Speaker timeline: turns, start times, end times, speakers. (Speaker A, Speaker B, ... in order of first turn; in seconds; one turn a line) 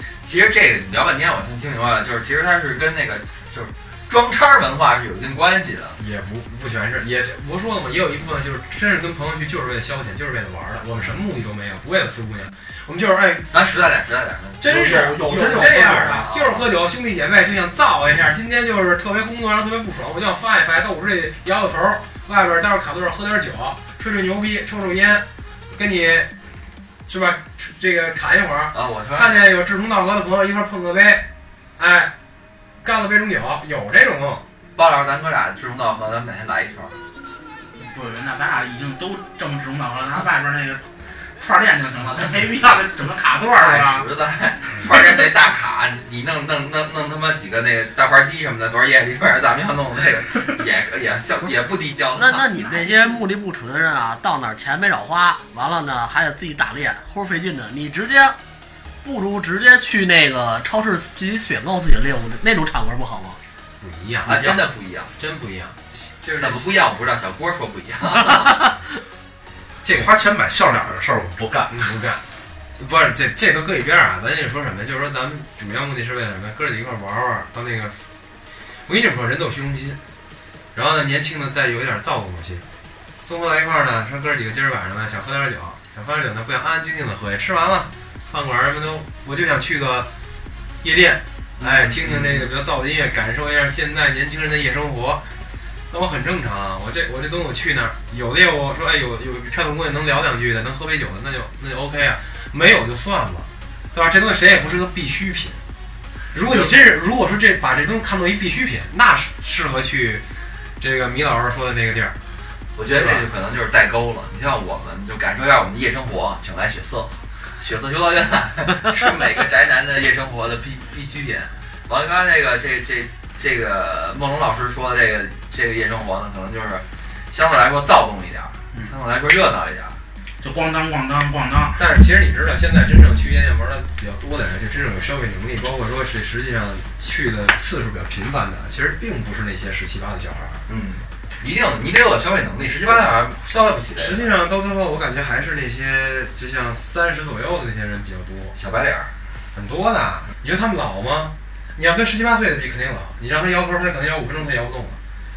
Speaker A: 0.2-6.0
Speaker B: 6.0-13.5
Speaker A: 13.5-14.6
Speaker C: 14.6-16.3
Speaker B: 14.6-26.3
Speaker A: 16.1-16.6
Speaker B: 27.1-31.2
Speaker A: 28.7-29.4
Speaker B: 31.8-32.1
Speaker B: 32.8-34.4
Speaker A: 34.7-36.9
Speaker D: 37.8-40.9
Speaker D: 41.4-44.0
Speaker A: 43.5-52.5
Speaker E: 52.1-58.4
Speaker D: 52.5-53.2
Speaker E: 59.0-63.4
Speaker B: 63.8-64.7
Speaker A: 64.2-65.1
Speaker B: 65.2-66.7
Speaker A: 66.4-68.6
Speaker B: 69.8-70.1
Speaker C: 69.9-72.0
Speaker B: 71.7-72.2
Speaker B: 72.8-78.0
Speaker B: 78.8-80.0
Speaker B: 80.7-82.6
Speaker B: 83.2-90.1
Speaker B: 90.8-95.2
Speaker A: 91.6-92.5
Speaker B: 95.9-105.6
Speaker B: 106.3-110.2
Speaker A: 106.4-106.8
Speaker B: 110.8-112.2
Speaker A: 112.8-130.0
Speaker B: 112.9-113.2
Speaker D: 130.4-131.8
Speaker B: 131.8-140.6
Speaker A: 140.7-144.3
Speaker B: 144.0-148.6
Speaker A: 148.5-149.1
Speaker B: 149.5-155.0